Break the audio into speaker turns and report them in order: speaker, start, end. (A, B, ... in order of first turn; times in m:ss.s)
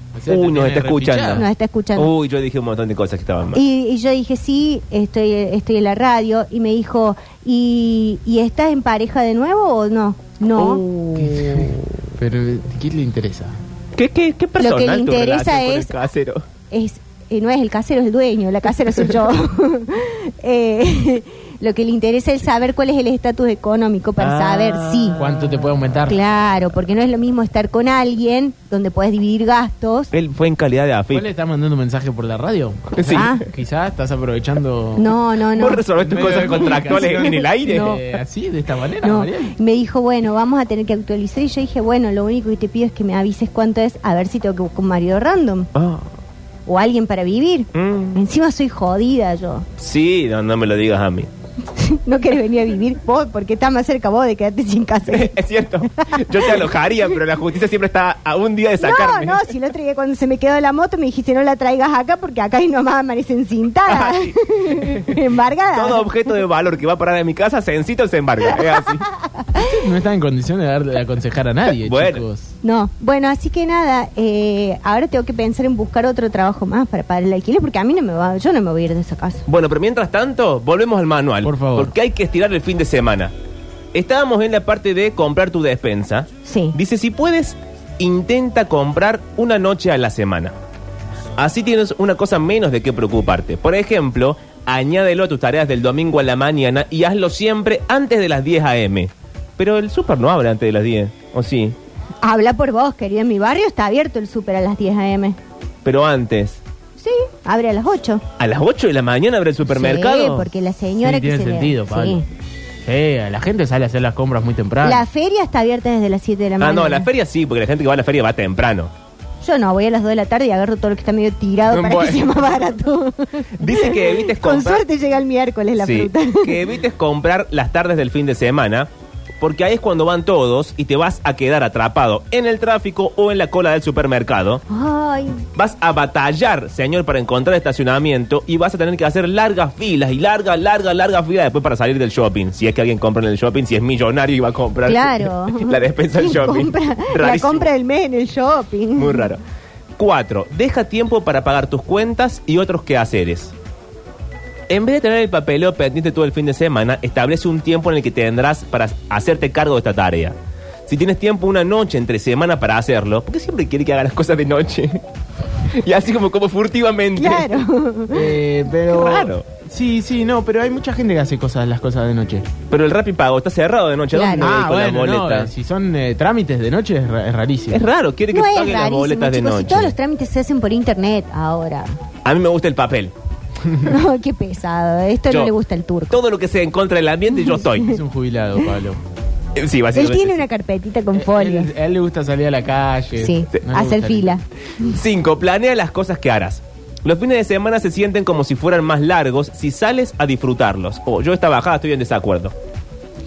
0:00.2-0:01.4 A
0:00.3-0:03.6 B
0:01.3-0:02.1 C
0:03.5-0:11.5 C
0:10.6-0:11.8 B
0:11.3-0:13.6 A
0:14.0-0:16.4 B
0:14.6-0:16.0 C
0:16.7-0:25.2 C
0:24.2-0:25.8 B
0:25.2-0:26.2 A
0:26.1-0:30.1 C
0:30.1-0:31.3 B
0:31.1-0:35.1 A
0:32.9-0:33.3 B
0:33.1-0:33.4 C
0:35.0-0:35.8 C
0:35.6-0:38.2 B
0:36.0-0:39.6 A
0:36.6-0:38.0 C
0:39.0-0:45.7 C
0:45.8-0:46.1 B
0:46.7-0:49.7 C
0:47.7-0:48.2 B
0:49.8-0:51.3 B
0:51.7-0:55.3 C
0:55.1-0:59.5 B
0:56.0-0:56.6 C
0:58.8-1:06.0 C
1:03.9-1:05.2 B
1:05.7-1:09.1 B
1:09.6-1:12.5 A
1:11.8-1:12.2 B
1:12.6-1:19.4 C
1:19.5-1:23.3 B
1:21.4-1:21.9 A
1:23.9-1:30.5 B
1:26.4-1:26.8 C
1:31.4-1:41.8 B
1:42.2-1:45.4 C
1:45.8-1:46.6 B
1:47.0-1:48.2 C
1:48.4-1:50.5 B
1:49.7-1:52.3 C
1:51.0-1:52.2 A
1:52.8-1:55.0 A
1:54.8-1:57.1 C
1:56.6-1:58.9 B
1:59.4-2:06.6 C
2:01.7-2:02.3 B
2:03.6-2:04.8 B
2:05.8-2:08.9 B
2:09.4-2:14.6 B
2:14.7-2:15.4 C
2:15.6-2:27.7 B
2:24.9-2:29.3 C
2:29.0-2:29.4 B
2:30.0-2:33.5 B
2:34.7-2:40.4 B
2:40.9-2:45.0 B
2:45.7-2:47.5 B
2:47.2-2:48.4 C
2:48.1-2:52.5 A
2:48.9-2:49.4 B
2:52.7-2:55.5 B
2:54.1-2:54.5 C
2:54.4-2:57.8 A
2:57.7-3:00.0 B
2:58.3-3:02.0 C
3:02.2-3:03.1 B
3:03.8-3:06.2 C
3:06.1-3:08.0 B
3:07.8-3:09.0 A
3:09.6-3:10.4 B
3:10.0-3:11.7 C
3:11.1-3:14.4 A
3:13.2-3:14.9 C
3:14.8-3:22.5 B